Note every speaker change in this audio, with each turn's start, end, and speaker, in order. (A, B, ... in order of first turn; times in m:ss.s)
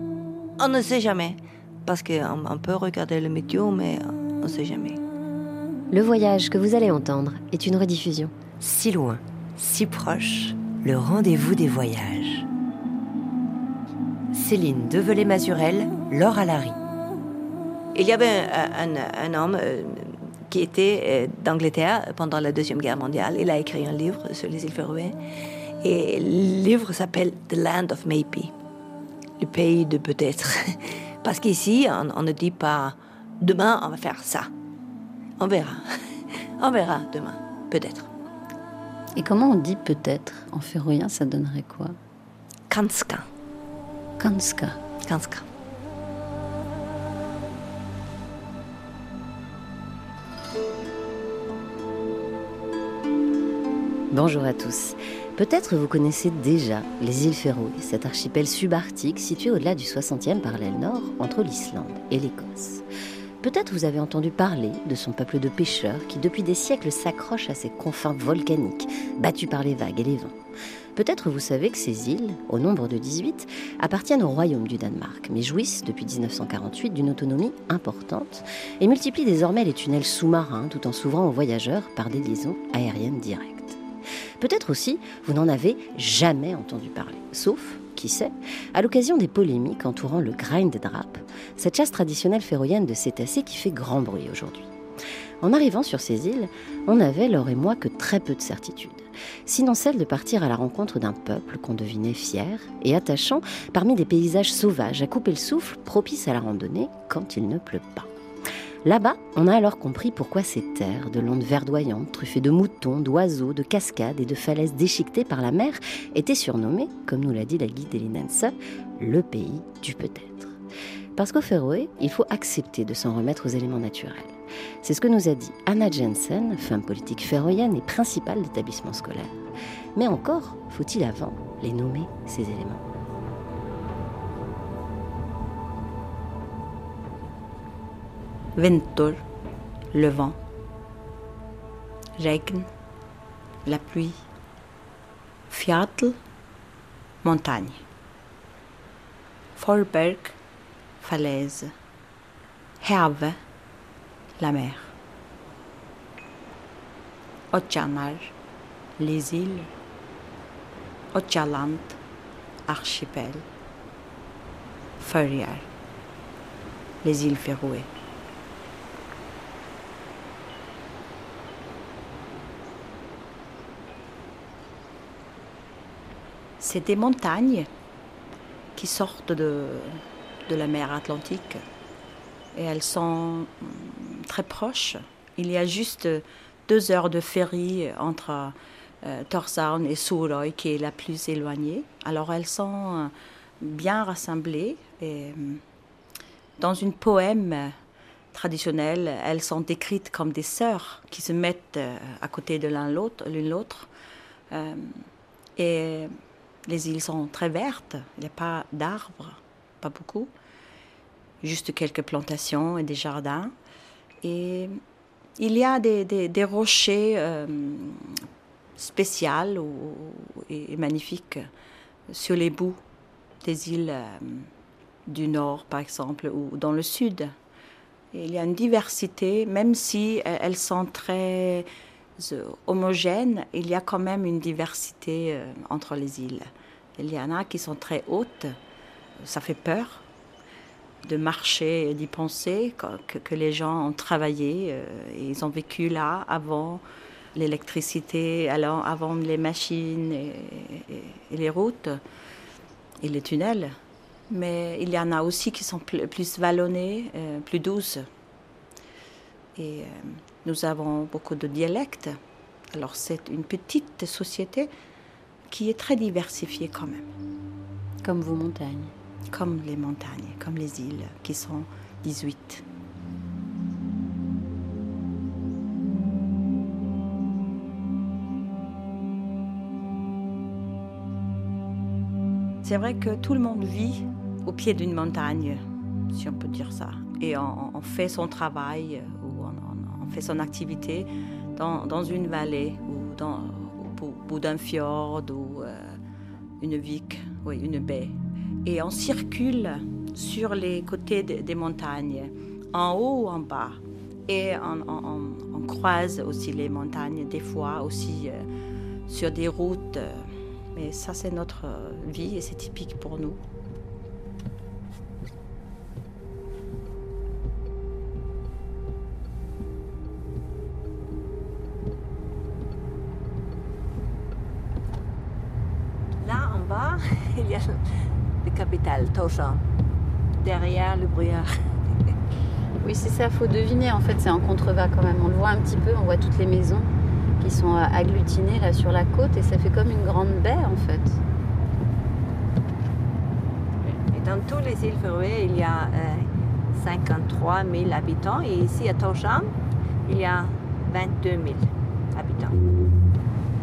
0:00.6-0:05.0 A
0:05.9-0:08.4 B
0:08.6-0:12.5 C
0:14.3-0:16.8 C
0:17.9-0:25.2 A
0:25.8-0:28.5 A
0:29.4-0:34.5 A
0:35.4-0:38.1 A
0:39.1-0:42.0 D
0:42.7-0:43.3 A
0:44.2-0:44.8 D
0:45.0-0:45.4 A
0:54.1-1:02.8 B
1:03.4-1:10.4 B
1:10.9-1:23.8 B
1:24.4-1:34.7 B
1:35.4-1:48.1 B
1:48.8-2:00.6 B
2:01.1-2:09.4 B
2:09.9-2:12.8 B
2:18.6-2:19.2 E
2:19.9-2:20.4 E
2:22.2-2:22.7 E
2:23.6-2:24.2 E
2:25.5-2:26.2 E
2:27.2-2:27.8 E
2:29.6-2:30.4 E
2:31.0-2:31.7 E
2:32.8-2:33.4 E
2:34.4-2:34.9 E
2:37.5-2:38.3 E
2:39.0-2:39.7 E
2:41.1-2:42.0 E
2:42.7-2:43.4 E
2:45.0-2:45.7 E
2:47.0-2:47.9 E
2:56.6-2:57.7 E
2:58.8-3:01.6 E
3:02.5-3:15.6 E
3:16.6-3:17.7 E
3:18.3-3:23.9 E
3:24.5-3:25.0 E
3:25.6-3:26.1 E
3:26.6-3:30.3 E
3:31.4-3:33.5 E
3:34.2-3:34.8 E
3:35.4-3:38.2 E
3:38.8-3:41.5 E
3:42.1-3:42.8 E
3:43.4-3:44.5 E
3:45.1-3:47.3 E
3:48.1-3:51.7 E
3:52.2-3:58.6 E
3:59.2-4:00.0 E
4:01.0-4:06.8 E
4:07.3-4:12.0 E
4:13.0-4:13.8 E
4:14.3-4:18.1 E
4:19.6-4:22.2 E
4:22.7-4:24.7 E
4:25.5-4:27.1 E
4:28.0-4:28.9 D
4:29.3-4:32.6 E
4:42.6-4:56.0 E
4:56.6-5:08.5 E
5:09.1-5:13.4 E
5:26.2-5:27.8 F
5:28.4-5:29.6 F
5:30.4-5:31.5 F
5:32.8-5:41.2 D
5:43.8-5:49.5 F
5:50.0-5:52.6 F